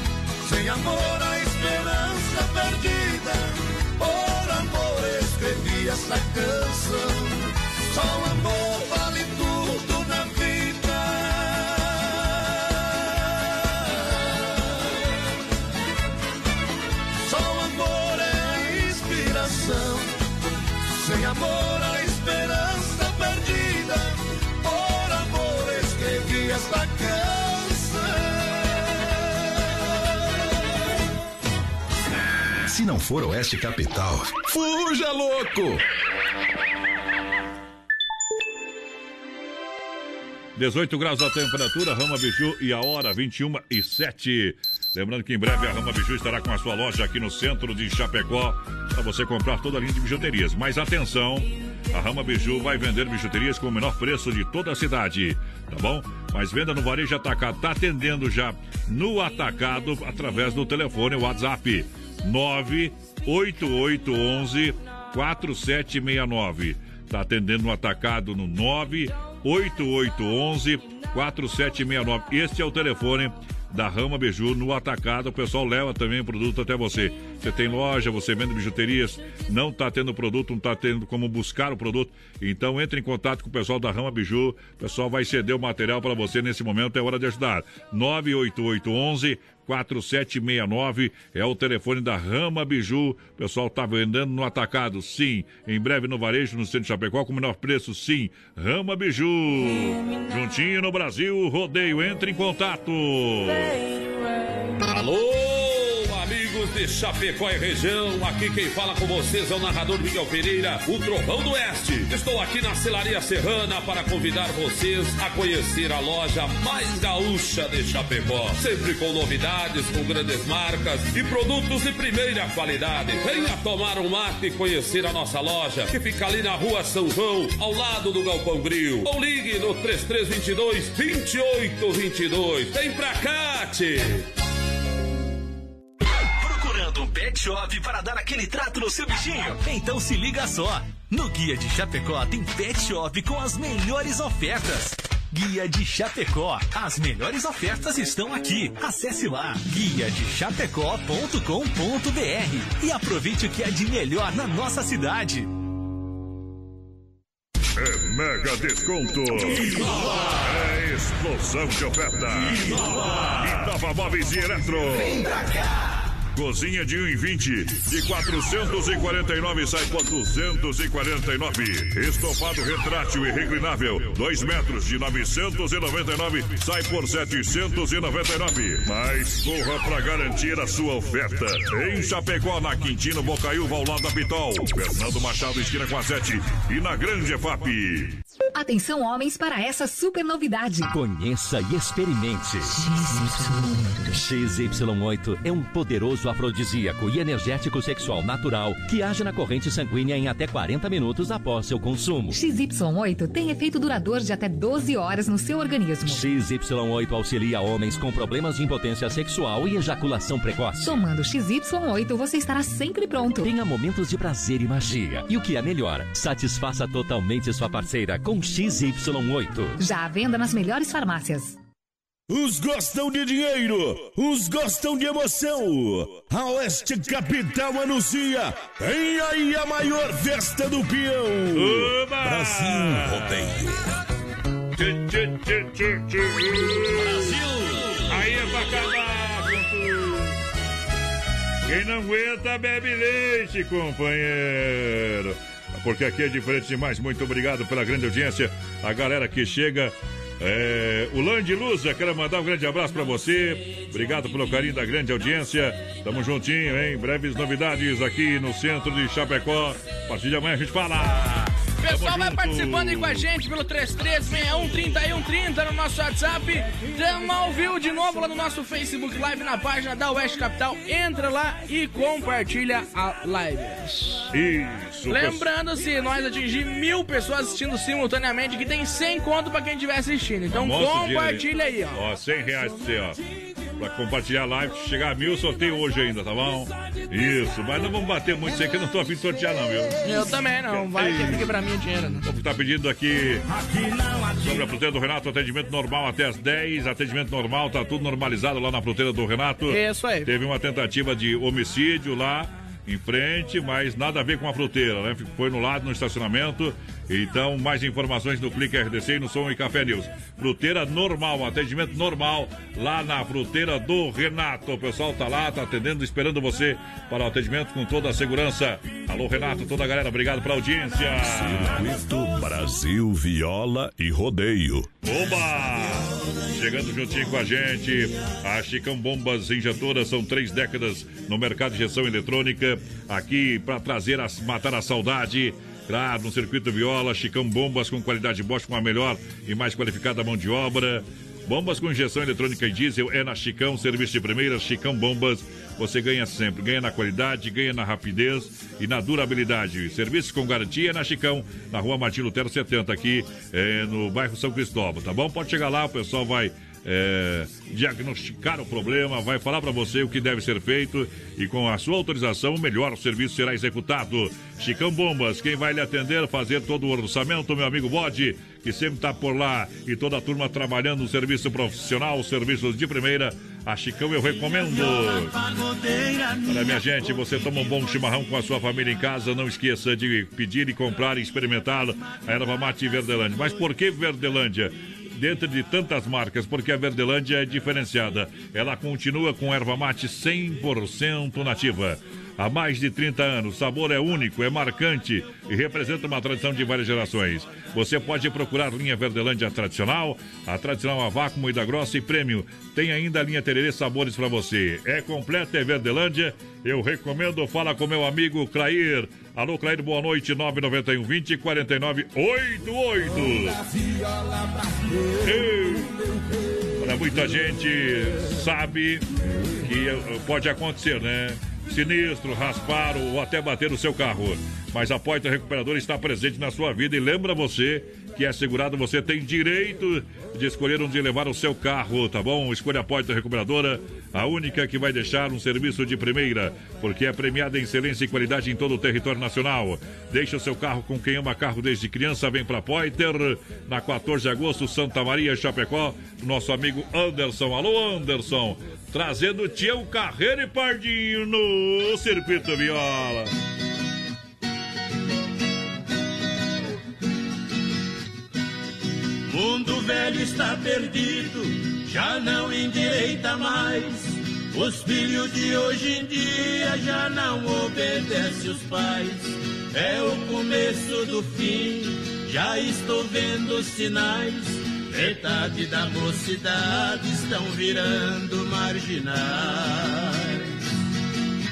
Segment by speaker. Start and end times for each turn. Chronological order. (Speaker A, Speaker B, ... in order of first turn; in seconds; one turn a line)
Speaker A: 0.4-15.0
Speaker A: 17.2-20.2
Speaker A: 20.9-29.9
Speaker B: 32.7-35.5
Speaker C: 40.5-103.8
Speaker D: 104.8-134.3
Speaker E: 139.7-144.8
Speaker E: 145.3-152.8
Speaker E: 153.7-155.4
Speaker C: 157.8-159.8
Speaker C: 160.4-162.8
Speaker C: 163.4-165.2
Speaker C: 166.3-188.2
Speaker F: 188.6-190.9
Speaker E: 190.9-192.8
Speaker F: 192.9-194.0
Speaker E: 194.1-202.4
Speaker F: 202.3-206.2
Speaker E: 206.1-210.9
Speaker F: 210.8-213.5
Speaker E: 213.4-219.8
Speaker F: 219.8-221.6
Speaker G: 222.3-234.0
Speaker C: 231.5-233.5
Speaker C: 234.8-237.4
Speaker C: 238.1-240.4
Speaker C: 241.7-263.3
Speaker H: 261.8-274.3
Speaker C: 274.3-275.4
Speaker H: 275.1-282.0
Speaker C: 280.5-283.2
Speaker C: 283.8-290.0
Speaker H: 290.0-292.2
Speaker C: 290.7-291.5
Speaker C: 292.2-293.5
Speaker A: 293.8-294.3
Speaker C: 294.4-321.9
Speaker H: 299.7-300.3
Speaker G: 321.2-324.9
Speaker C: 325.0-375.4
Speaker I: 375.5-376.0
Speaker C: 376.4-413.6
Speaker A: 413.8-415.1
Speaker C: 415.2-416.0
Speaker C: 416.8-419.1
Speaker C: 419.6-453.3
Speaker I: 459.3-480.4